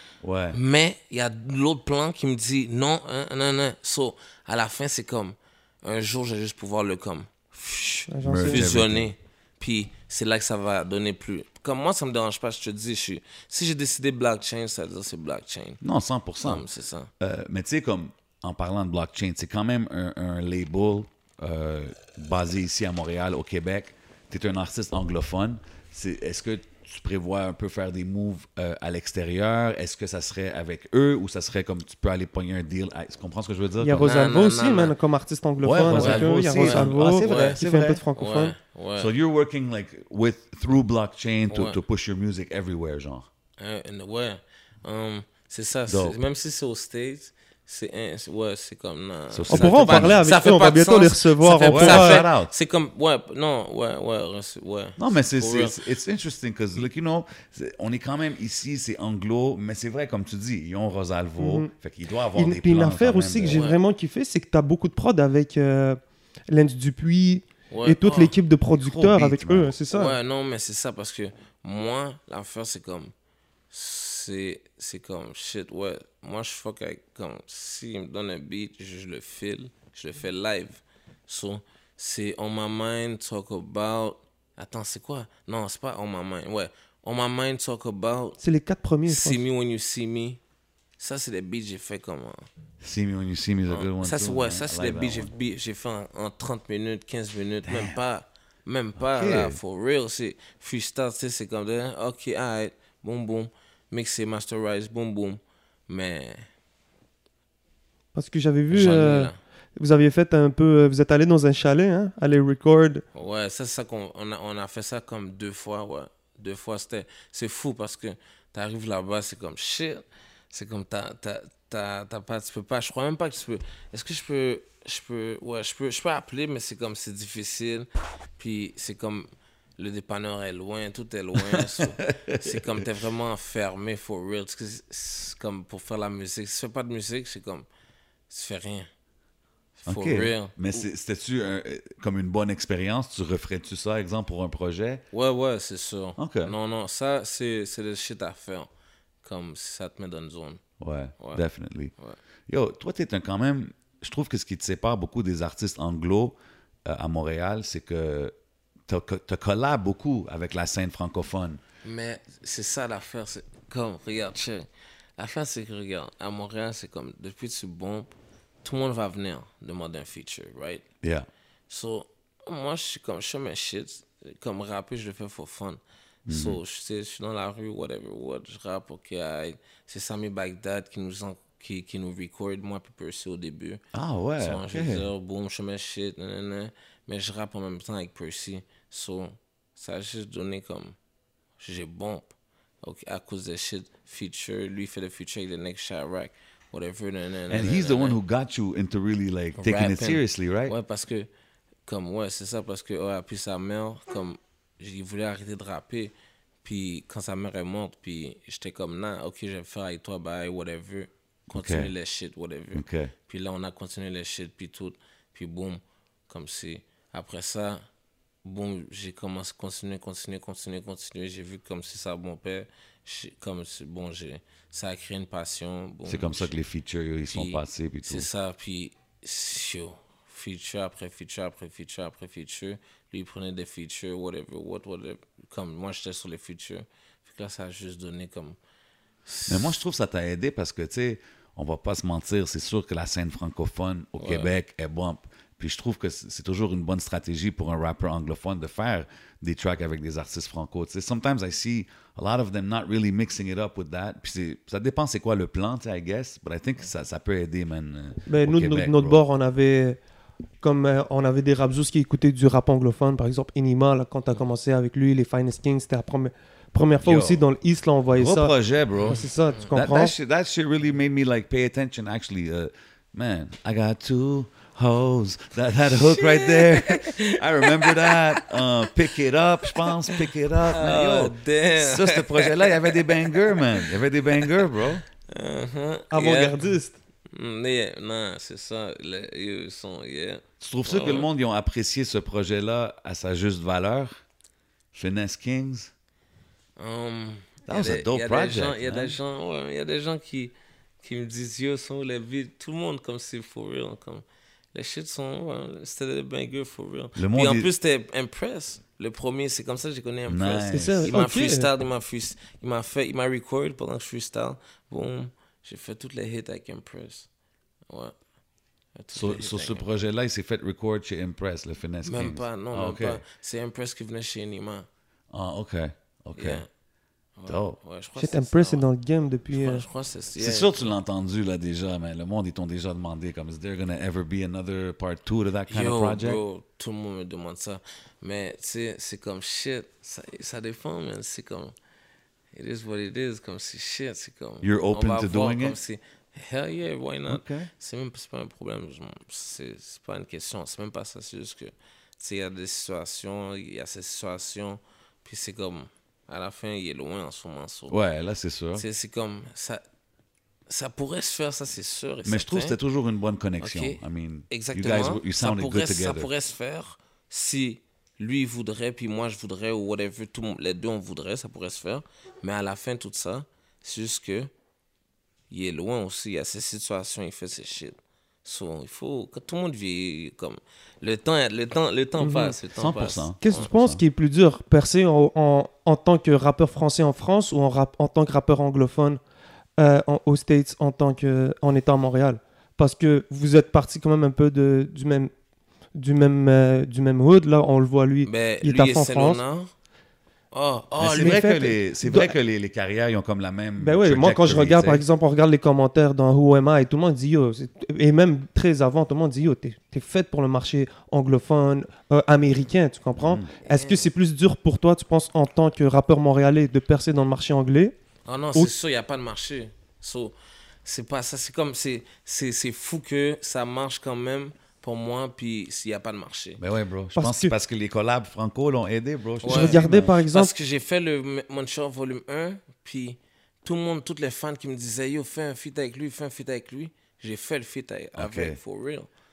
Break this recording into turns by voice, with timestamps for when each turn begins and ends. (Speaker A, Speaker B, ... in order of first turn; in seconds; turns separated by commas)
Speaker A: 0.2-0.6, Speaker B: 0.5-15.8, Speaker C: 8.1-8.7, Speaker A: 8.2-9.1, Speaker A: 15.8-16.7, Speaker B: 16.4-17.1, Speaker A: 17.2-34.1, Speaker C: 33.8-38.5, Speaker B: 34.0-34.9, Speaker A: 35.6-38.0, Speaker B: 35.9-37.6, Speaker B: 38.2-39.1, Speaker A: 39.0-43.3, Speaker B: 41.5-41.8, Speaker B: 43.6-55.8, Speaker A: 45.9-46.2, Speaker A: 49.3-50.3, Speaker C: 49.5-52.2, Speaker A: 51.7-52.5, Speaker A: 55.0-63.6, Speaker C: 61.4-61.7, Speaker C: 62.4-70.2, Speaker B: 63.5-63.8, Speaker B: 67.7-68.3, Speaker A: 68.7-69.8, Speaker B: 69.9-73.1, Speaker B: 73.7-88.4, Speaker C: 88.4-89.4, Speaker B: 89.1-90.4, Speaker B: 91.0-92.5, Speaker A: 92.8-95.3, Speaker B: 93.7-106.5, Speaker A: 97.7-98.0, Speaker A: 99.0-99.6, Speaker C: 108.2-113.0, Speaker B: 108.7-109.4, Speaker B: 113.1-137.7, Speaker A: 131.4-132.9, Speaker B: 138.3-138.9, Speaker B: 139.8-140.8, Speaker A: 139.9-145.0, Speaker B: 145.1-148.7, Speaker A: 146.2-146.5, Speaker B: 149.2-150.6, Speaker A: 150.8-151.9, Speaker A: 152.5-158.3, Speaker A: 158.9-161.6, Speaker B: 161.8-170.8, Speaker B: 171.7-183.8, Speaker A: 176.3-176.6, Speaker A: 183.9-185.1, Speaker B: 184.4-191.0, Speaker B: 191.6-198.2, Speaker A: 197.5-200.8, Speaker B: 199.6-201.3, Speaker B: 201.9-206.1, Speaker B: 206.6-217.8, Speaker A: 211.5-211.9, Speaker A: 212.7-213.1, Speaker B: 218.4-226.5, Speaker A: 226.1-228.3, Speaker B: 227.3-238.6, Speaker B: 239.2-239.8, Speaker A: 239.5-259.2, Speaker B: 244.2-244.5, Speaker C: 258.3-260.0, Speaker C: 260.6-268.5, Speaker A: 267.0-267.4, Speaker A: 268.2-285.0, Speaker C: 269.1-270.1, Speaker B: 276.0-278.7, Speaker B: 279.6-284.7, Speaker B: 285.3-286.7, Speaker C: 286.1-287.0, Speaker B: 287.3-291.3, Speaker A: 290.6-294.2, Speaker A: 294.9-295.9, Speaker B: 296.8-317.3, Speaker A: 297.7-299.2, Speaker A: 307.2-307.7, Speaker A: 310.3-311.2, Speaker C: 310.7-311.7, Speaker B: 317.9-318.2, Speaker B: 319.0-319.9, Speaker A: 319.1-323.2, Speaker B: 322.1-324.9, Speaker A: 325.3-326.6, Speaker B: 326.4-326.7, Speaker B: 327.4-328.9, Speaker A: 327.5-327.8, Speaker C: 328.2-329.8, Speaker B: 329.5-330.9, Speaker A: 330.4-336.4, Speaker B: 335.7-341.7, Speaker B: 342.5-358.0, Speaker A: 344.6-345.8, Speaker A: 347.3-347.7, Speaker A: 357.9-358.8, Speaker B: 358.8-359.8, Speaker B: 360.7-362.8, Speaker A: 362.2-366.3, Speaker B: 363.6-374.5, Speaker B: 375.5-383.7, Speaker C: 382.2-382.6, Speaker A: 382.8-384.0, Speaker C: 383.4-389.2, Speaker C: 389.8-395.3, Speaker C: 395.9-399.4, Speaker B: 398.2-399.7, Speaker B: 400.5-401.4, Speaker A: 401.0-405.0, Speaker C: 401.2-402.3, Speaker C: 403.8-417.9, Speaker A: 413.2-413.5, Speaker B: 413.6-414.1, Speaker B: 418.2-420.3, Speaker B: 420.9-426.6, Speaker A: 426.6-430.2, Speaker C: 427.1-427.5, Speaker B: 429.4-439.1, Speaker C: 429.4-430.5, Speaker A: 438.2-438.6